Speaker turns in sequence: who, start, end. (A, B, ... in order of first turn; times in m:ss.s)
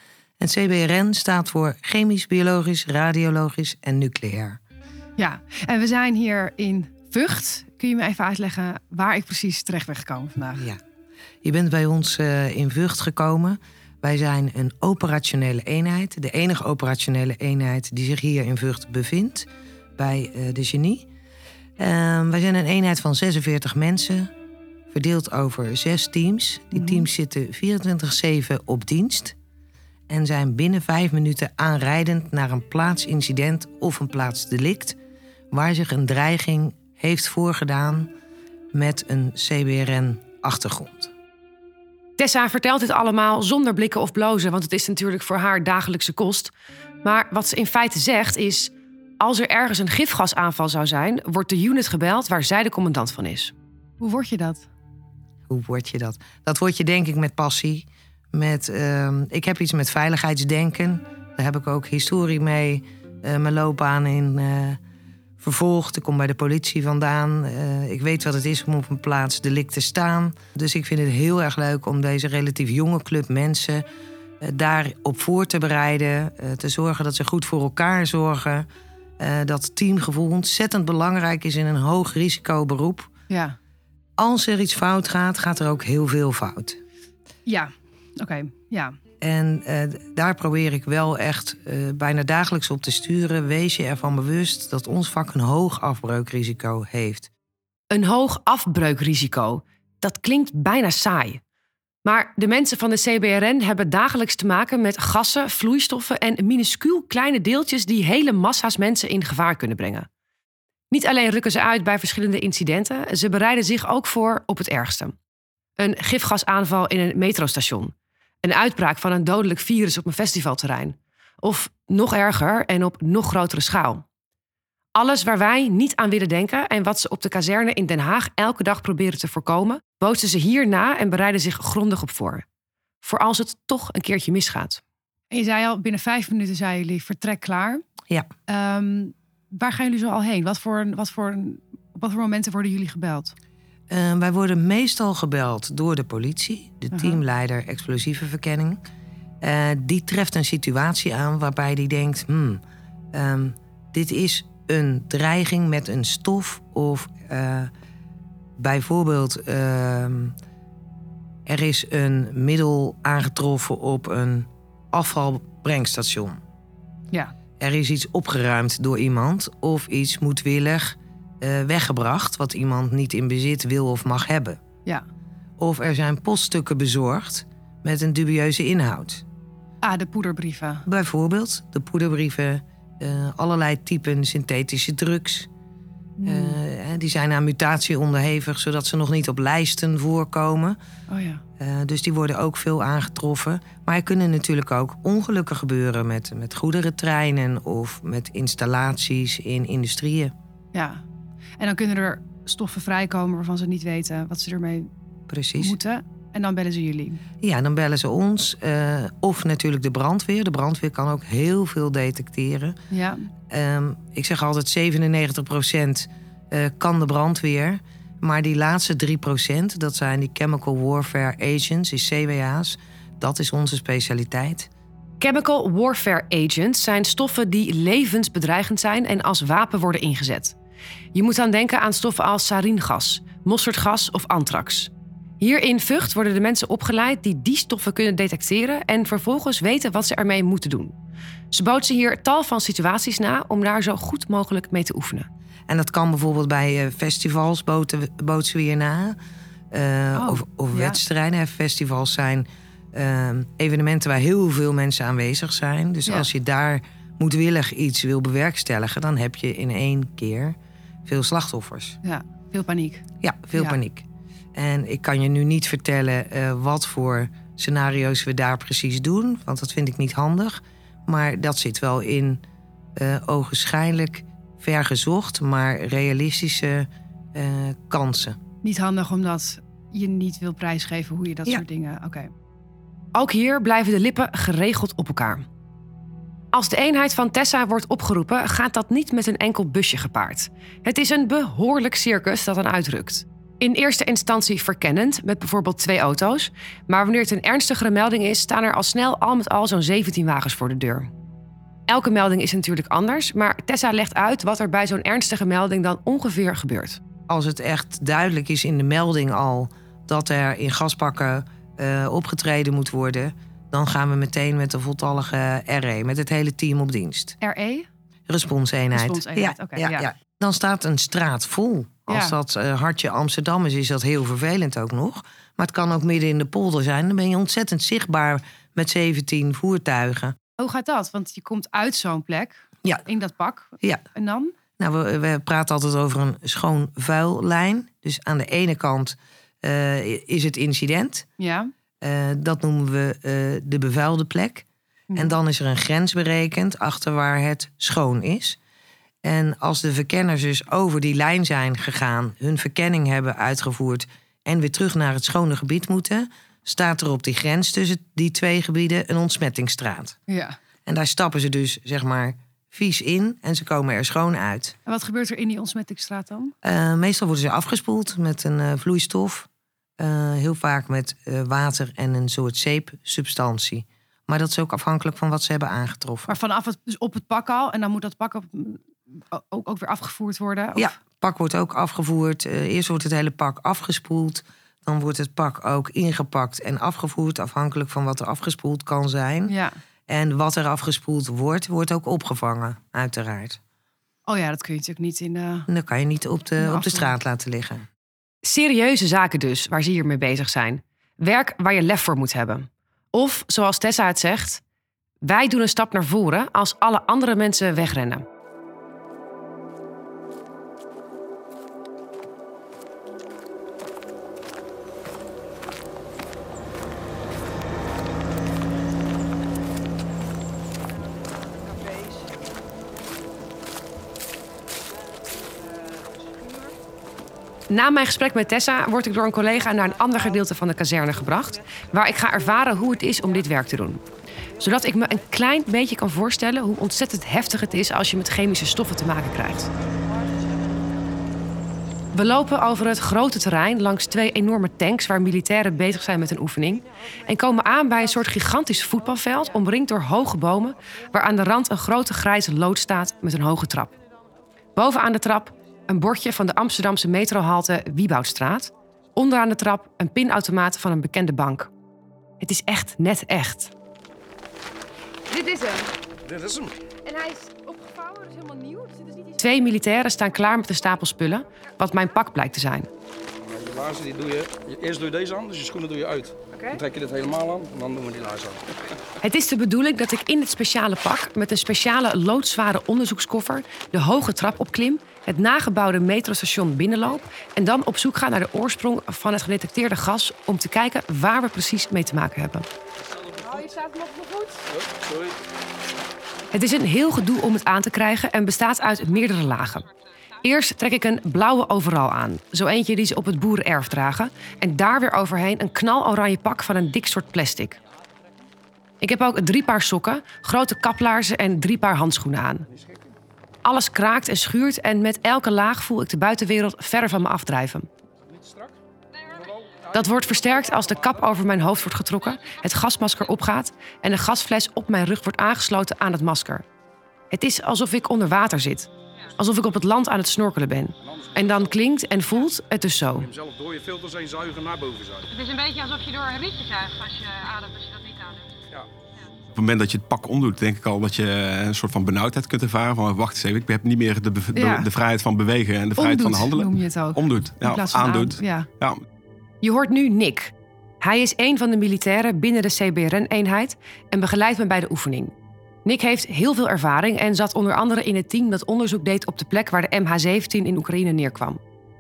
0:00.4-0:04.6 A
0:05.2-0:10.6 B
0:10.6-0:10.8 A
0:11.4-0:21.1 A
0:21.8-0:24.3 A
0:24.9-0:29.4 A
0:26.8-0:27.1 B
0:30.1-0:35.0 A
0:35.5-0:38.1 A
0:38.7-0:41.1 A
0:42.2-0:46.5 C
0:47.0-0:53.5 C
0:54.0-0:54.7 B
0:55.5-1:04.8 A
1:05.4-1:13.8 A
1:14.4-1:18.7 A
1:19.2-1:23.1 A
1:23.3-1:23.6 B
1:24.2-1:26.8 A
1:27.4-1:29.0 B
1:29.2-1:37.3 A
1:37.9-1:41.4 C
1:42.0-1:50.1 C
1:50.9-1:55.2 C
1:55.8-2:04.0 C
2:05.0-2:12.4 C
2:13.0-2:14.8 C
2:15.3-2:17.8 B
2:18.5-2:23.3 B
2:23.9-2:28.8 A
2:26.9-2:27.2 B
2:29.4-2:32.6 A
2:33.1-2:37.7 A
2:38.6-2:40.3 A
2:41.5-2:46.4 A
2:47.6-2:54.6 A
2:55.6-2:59.2 A
2:59.8-3:00.8 B
3:00.8-3:05.5 A
3:06.2-3:06.6 B
3:06.2-3:10.8 A
3:11.1-3:11.4 B
3:11.6-3:20.3 A
3:20.7-3:21.0 B
3:21.6-3:24.9 B
3:25.3-3:25.8 A
3:25.6-3:27.2 B
3:27.4-3:32.8 A
3:32.9-3:33.3 B
3:33.5-3:44.7 A
3:45.2-3:50.6 C
3:51.1-4:00.9 C
4:01.5-4:05.3 C
4:05.7-4:09.2 A
4:09.7-4:22.0 A
4:10.2-4:11.0 B
4:22.0-4:23.0 B
4:23.2-4:32.4 A
4:33.0-4:38.4 A
4:38.6-4:42.3 B
4:43.1-4:45.5 C
4:46.5-5:01.1 C
5:01.9-5:07.0 C
5:07.3-5:17.4 A
5:17.4-5:17.9 B
5:18.3-5:30.4 A
5:18.9-5:20.1 B
5:22.1-5:22.4 B
5:30.6-5:34.6 B
5:34.8-5:41.3 A
5:41.4-5:41.7 B
5:42.0-5:48.6 A
5:49.2-6:00.2 A
6:00.3-6:00.6 B
6:00.9-6:04.8 A
6:04.9-6:06.5 B
6:06.6-6:09.5 A
6:10.0-6:16.4 A
6:16.3-6:20.9 B
6:20.8-6:29.6 A
6:29.5-6:29.8 B
6:30.1-6:33.6 A
6:34.2-6:35.7 B
6:35.7-6:37.9 A
6:36.6-6:37.1 B
6:38.4-6:44.6 C
6:45.2-6:48.2 C
7:07.7-7:14.0 C
7:14.6-7:19.7 C
7:22.1-7:33.9 C
7:34.8-7:41.7 C
7:42.4-7:43.7 C
7:45.3-7:46.0 B
7:46.2-7:46.8 D
7:47.0-7:49.4 B
7:49.4-7:52.9 C
7:53.4-7:58.7 D
7:56.5-7:56.8 B
7:59.2-8:12.7 C
8:13.2-8:13.6 D
8:13.4-8:14.6 B
8:14.7-8:15.4 D
8:16.5-8:19.9 C
8:20.4-8:27.8 C
8:29.0-8:32.6 C
8:32.7-8:33.0 D
8:33.6-8:37.9 C
8:38.2-8:41.3 D
8:39.9-8:46.6 C
8:47.3-8:53.3 C
8:51.0-8:51.8 D
8:53.1-8:55.3 D
8:55.3-8:58.6 E
8:59.5-9:09.0 F
9:04.5-9:04.9 B
9:06.0-9:08.7 B
9:09.6-9:15.3 C
9:15.8-9:21.6 C